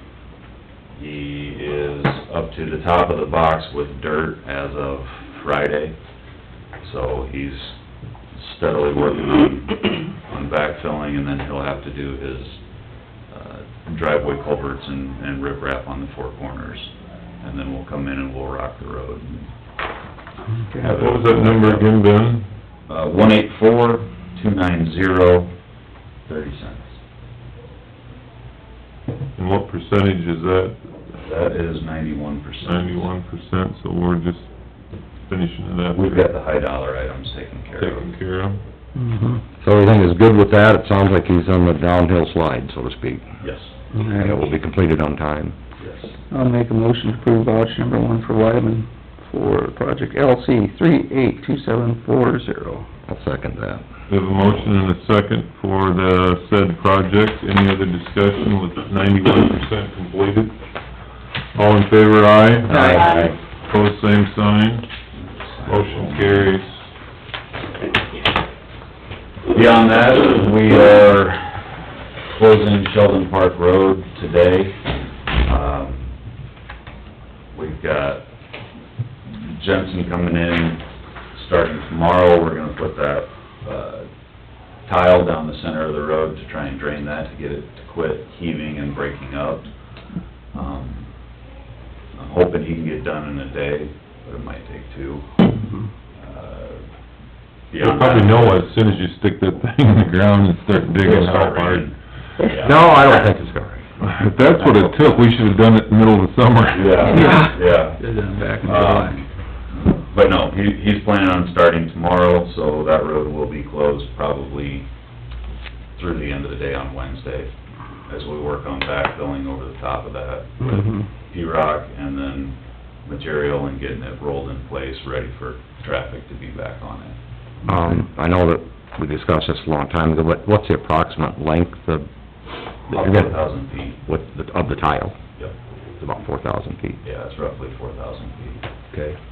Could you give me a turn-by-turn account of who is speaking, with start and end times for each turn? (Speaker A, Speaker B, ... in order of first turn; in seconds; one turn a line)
Speaker A: 0.9-6.0
Speaker A: 6.8-7.8
Speaker A: 8.3-12.6
Speaker A: 13.3-19.5
Speaker B: 20.5-20.8
Speaker A: 20.8-21.9
Speaker C: 20.8-22.5
Speaker A: 22.9-25.5
Speaker A: 26.2-26.9
Speaker C: 29.4-30.8
Speaker A: 31.1-33.1
Speaker C: 32.6-34.5
Speaker C: 35.3-36.2
Speaker A: 35.9-38.1
Speaker C: 37.8-38.6
Speaker B: 39.0-39.4
Speaker D: 39.6-43.3
Speaker A: 43.4-43.7
Speaker B: 43.9-44.4
Speaker D: 44.1-45.5
Speaker A: 45.8-46.1
Speaker B: 46.3-52.9
Speaker D: 53.1-53.8
Speaker C: 54.1-60.5
Speaker C: 61.5-64.8
Speaker D: 62.7-63.4
Speaker B: 62.7-63.1
Speaker A: 65.1-66.5
Speaker C: 65.7-66.8
Speaker A: 69.5-71.8
Speaker A: 72.3-74.8
Speaker A: 75.4-76.2
Speaker A: 77.5-78.3
Speaker A: 79.2-84.1
Speaker A: 84.8-89.7
Speaker A: 90.5-91.1
Speaker A: 92.1-95.3
Speaker A: 96.1-96.8
Speaker A: 97.7-98.6
Speaker C: 97.8-101.9
Speaker A: 101.0-103.2
Speaker D: 102.6-103.8
Speaker C: 104.0-107.2
Speaker D: 104.6-104.9
Speaker A: 106.7-114.9
Speaker B: 107.1-109.2
Speaker A: 116.0-117.5
Speaker A: 118.1-127.2
Speaker D: 127.7-132.1
Speaker D: 132.8-135.2
Speaker A: 132.9-134.0
Speaker D: 136.0-137.0
Speaker A: 137.0-138.6